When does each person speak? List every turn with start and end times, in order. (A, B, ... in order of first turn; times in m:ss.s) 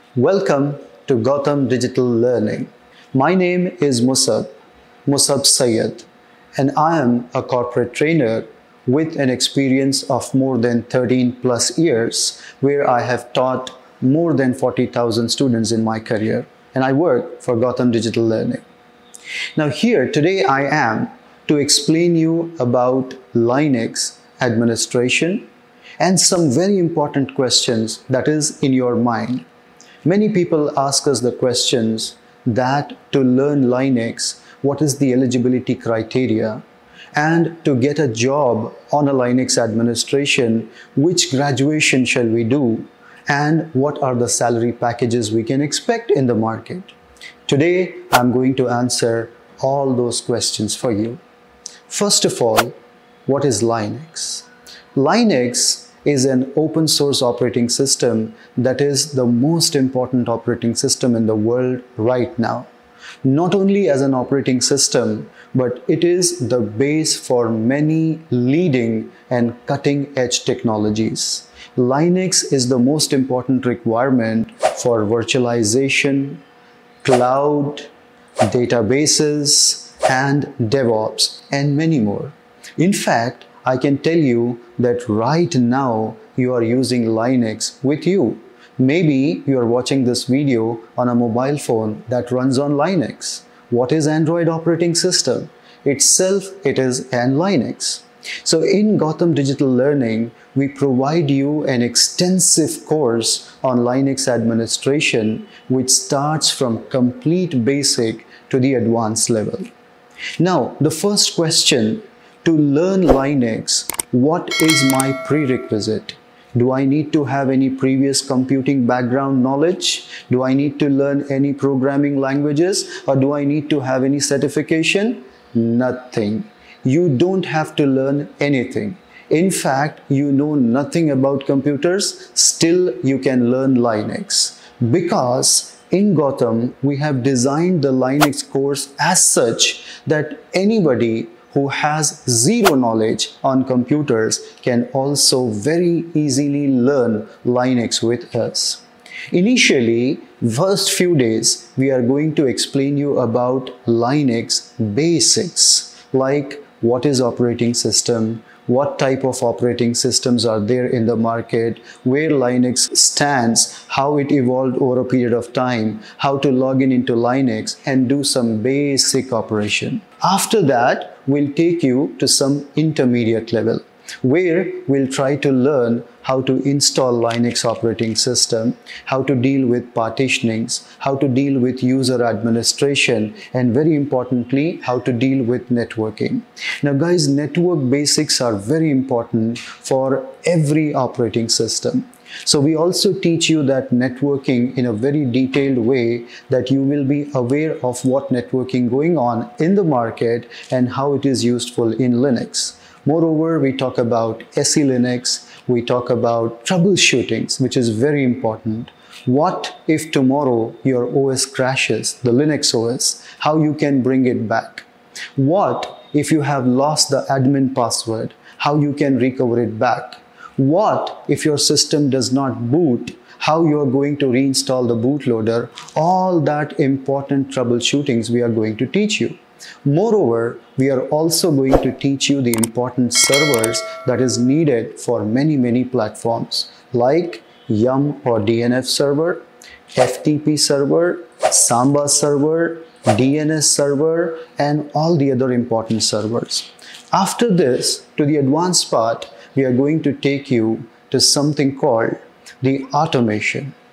0:00.1-0:04.5 A
0:05.0-0:18.6 A
0:19.6-0:25.5 A
0:26.0-0:29.4 A
0:30.0-0:46.9 A
0:47.4-0:51.2 A
0:51.9-1:02.7 A
1:03.2-1:16.4 A
1:17.0-1:17.9 A
1:18.4-1:49.7 A
1:50.4-4:13.7 A